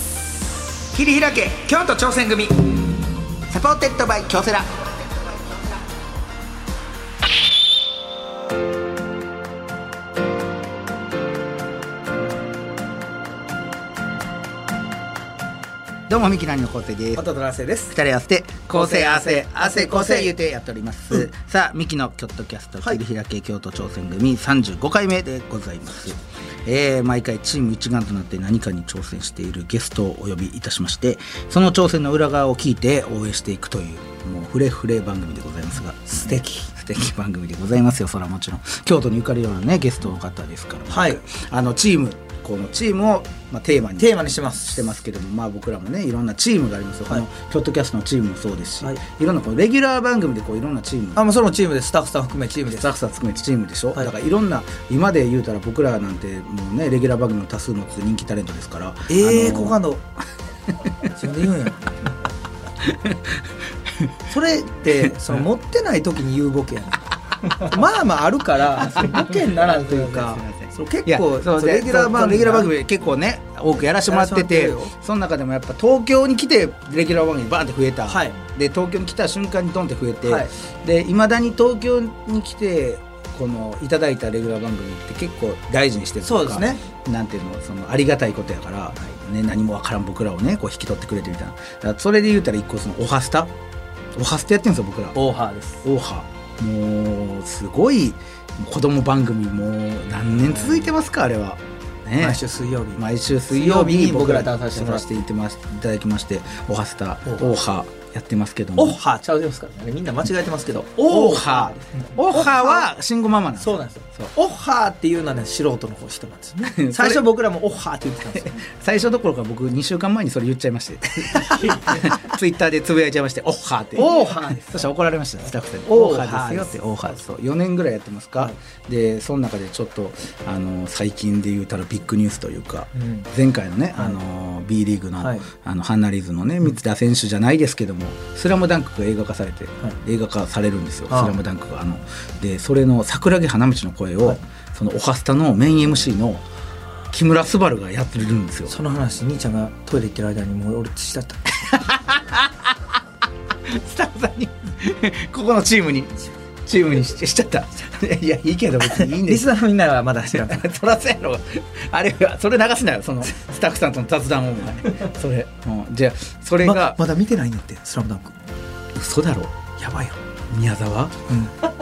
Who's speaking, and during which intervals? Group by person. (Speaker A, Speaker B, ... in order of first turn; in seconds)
Speaker A: 0.9-2.6, 17.1-17.9, 18.7-20.3, 36.1-36.7, 40.9-41.2, 44.0-44.7, 51.1-52.9, 59.1-60.0, 61.1-61.9, 64.3-67.0, 67.5-72.7, 74.1-74.9, 78.1-78.4, 80.2-80.5, 86.2-86.8, 95.1-95.8, 100.4-100.8, 102.2-105.2, 108.8-112.9, 113.6-118.6, 121.3-122.2, 123.9-124.8, 125.9-127.2, 132.9-133.3, 135.2-135.5, 141.1-141.4, 148.7-151.6, 159.0-160.7, 166.6-168.3, 169.8-170.1
Speaker B: 1.0-1.7, 3.5-4.8, 16.1-17.2, 17.9-51.2, 52.7-59.8, 62.8-63.2, 68.8-93.5, 94.1-95.2, 95.8-102.4, 102.9-109.0, 111.1-114.3, 116.6-117.3, 118.3-146.4, 147.1-148.7, 151.6-152.7, 153.7-159.4, 160.3-167.0, 168.9-169.8, 170.5-171.3